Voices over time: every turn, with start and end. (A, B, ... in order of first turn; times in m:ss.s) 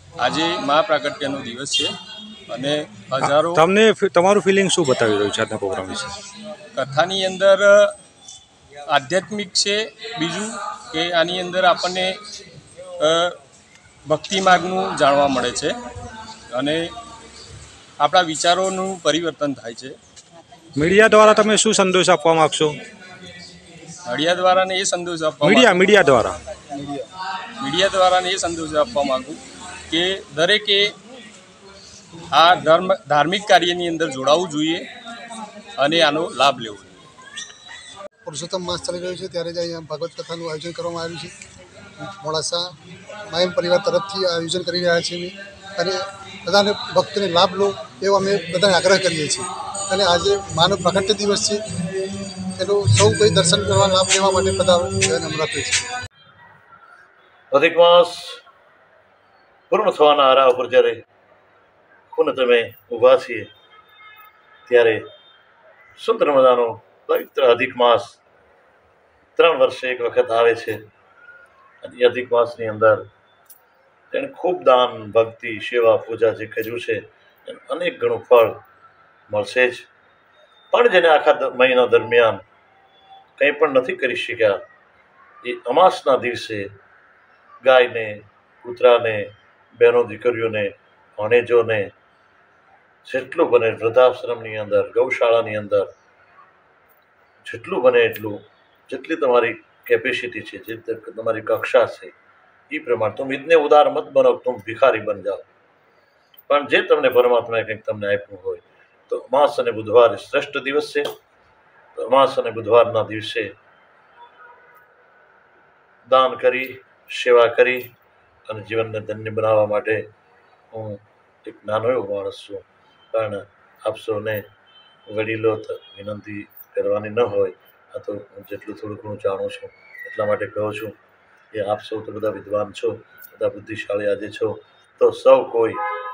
0:00.2-0:01.9 A
0:02.5-0:03.6 A
0:03.2-0:06.2 B
0:06.7-0:07.9 A
0:08.9-0:12.2 A
0:13.0-0:13.4 A
0:14.0-0:15.8 A
0:16.5-0:16.9 A
0:18.0-0:20.0 A
0:20.8-0:22.8 B
0:24.0-0:26.0 A
0:25.4-0:26.4 B
0:26.7-0:27.1 A
0:27.6-0:31.0 A
0:32.3-0:34.9 A
0:35.8-0:37.0 A
0:38.2-0:41.3 C
0:42.0-0:42.7 C
0:43.3-0:51.6 C
0:52.6-0:55.8 C
0:57.5-0:58.4 D
0:59.7-1:01.0 D
1:02.1-1:03.5 D
1:04.7-1:05.0 D
1:06.0-1:08.2 D
1:09.4-1:10.8 D
1:11.8-1:13.0 D
1:14.1-1:18.6 D
1:19.3-1:19.9 D
1:20.7-1:22.4 D
1:23.4-1:24.6 D
1:25.4-1:26.7 D
1:27.6-1:31.9 D
1:33.0-1:35.9 D
1:37.4-1:42.1 D
1:42.7-1:45.5 D
1:46.5-1:51.1 D
1:52.0-1:53.5 D
1:56.1-1:57.8 D
1:58.5-2:00.0 D
2:00.7-2:04.4 D
2:05.1-2:10.9 D
2:11.5-2:15.8 D